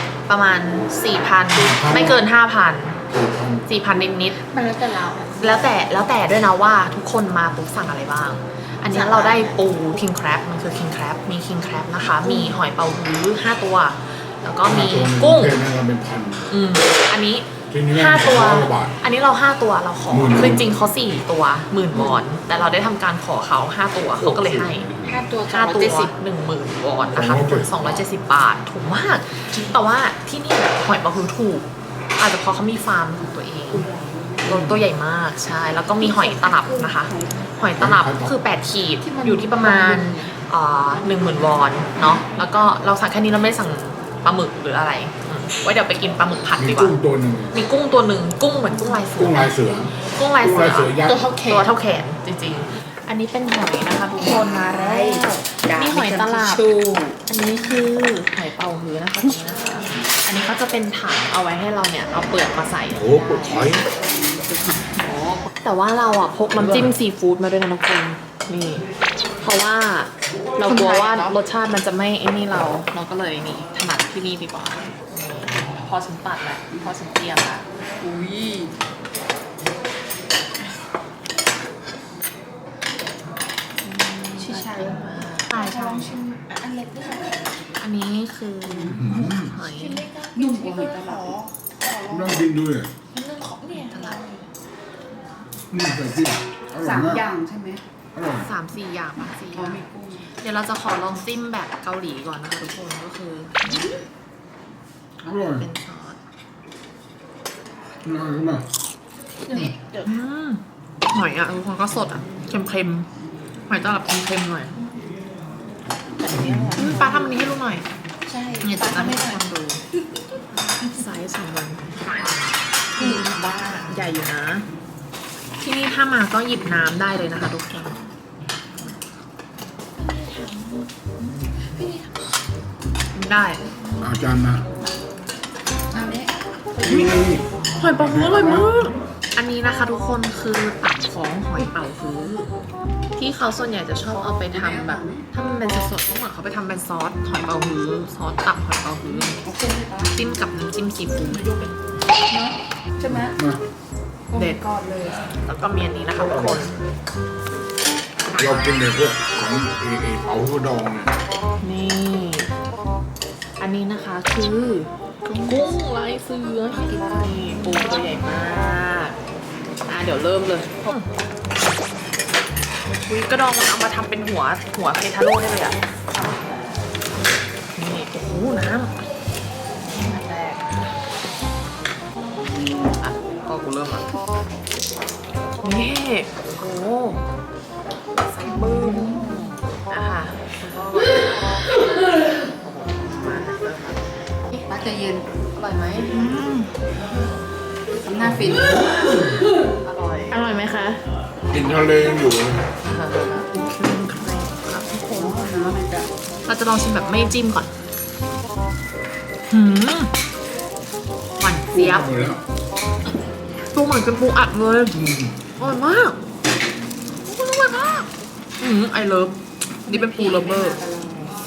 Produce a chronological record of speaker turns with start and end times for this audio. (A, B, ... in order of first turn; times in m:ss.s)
0:00.3-0:03.0 A
0:01.5-0:02.2 B
0:03.1-0:03.7 B
0:03.7-0:04.4 A
0:04.4-0:05.7 C
0:05.4-0:15.6 A
0:08.9-0:09.6 C
0:12.2-0:12.5 C
0:14.7-0:16.5 B
0:16.5-0:24.9 A
0:17.7-0:19.0 B
0:20.1-0:20.7 B
0:24.2-0:25.2 B
0:25.0-0:26.1 C
0:25.5-0:33.9 A
0:27.1-0:28.0 B
0:33.7-0:34.4 C
0:34.4-0:47.0 A
0:34.5-0:34.8 B
0:36.0-0:37.5 C
0:37.8-0:38.4 B
0:39.0-0:40.3 C
0:46.6-0:47.6 B
0:47.5-0:56.7 A
0:49.2-0:51.2 B
0:51.1-0:51.7 C
0:54.2-0:57.2 C
0:57.2-1:03.8 A
1:02.9-1:03.9 B
1:04.9-1:08.9 A
1:09.4-1:17.6 A
1:10.6-1:11.4 C
1:18.0-1:18.7 C
1:23.8-1:26.2 A
1:24.3-1:27.6 C
1:27.8-1:31.2 A
1:28.6-1:32.5 C
1:28.8-1:29.6 B
1:32.1-1:32.9 B
1:33.2-1:34.3 A
1:33.2-1:34.5 C
1:35.7-1:37.3 B
1:36.8-1:37.8 C
1:38.1-1:38.5 B
1:38.4-1:44.0 A
1:39.5-1:40.3 C
1:45.2-1:45.7 B
1:45.6-1:46.2 A
1:48.0-1:48.7 B
1:49.5-1:50.1 C
1:49.5-1:53.1 A
1:53.7-1:54.8 A
1:56.2-1:57.3 C
1:56.3-1:56.8 B
1:56.8-1:57.9 A
1:58.3-1:59.5 C
1:58.6-1:59.8 A
2:00.8-2:02.3 A
2:03.0-2:03.3 A
2:03.0-2:03.9 C
2:03.9-2:04.7 A
2:05.6-2:08.0 A
2:10.0-2:11.1 C
2:11.7-2:12.1 C
2:13.1-2:13.6 A
2:14.0-2:14.7 B
2:15.9-2:17.1 C
2:16.8-2:18.7 B
2:17.8-2:22.5 A
2:23.2-2:29.4 A
2:24.1-2:25.2 C
2:29.4-2:30.1 C
2:30.1-2:31.5 A
2:31.2-2:31.7 C
2:32.3-2:33.4 C
2:33.1-2:33.6 B
2:34.3-2:35.3 C
2:34.4-2:34.6 A
2:35.2-2:36.7 A
2:36.2-2:36.9 B
2:38.3-2:41.2 B
2:41.6-2:42.5 A
2:43.6-2:49.2 A
2:45.2-2:45.6 C
2:46.8-2:48.1 C
2:49.9-2:51.1 A
2:53.1-2:55.8 A
2:57.8-2:59.0 A
2:59.9-3:00.9 A
3:02.7-3:04.1 A
3:05.6-3:07.2 A
3:08.2-3:11.7 A
3:08.5-3:09.4 C
3:12.5-3:14.2 A
3:14.5-3:15.3 C
3:15.6-3:16.7 A
3:18.0-3:18.9 C
3:18.2-3:19.2 B
3:18.3-3:18.8 A
3:19.8-3:21.0 A
3:21.5-3:22.7 B
3:22.8-3:25.4 A
3:25.0-3:26.1 C
3:26.5-3:27.7 A
3:29.5-3:30.1 A
3:31.4-3:32.2 A
3:31.7-3:32.4 B
3:33.7-3:35.0 A
3:34.9-3:35.4 B
3:35.6-3:36.2 A
3:37.2-3:38.1 A
3:38.6-3:40.8 A
3:39.9-3:41.4 C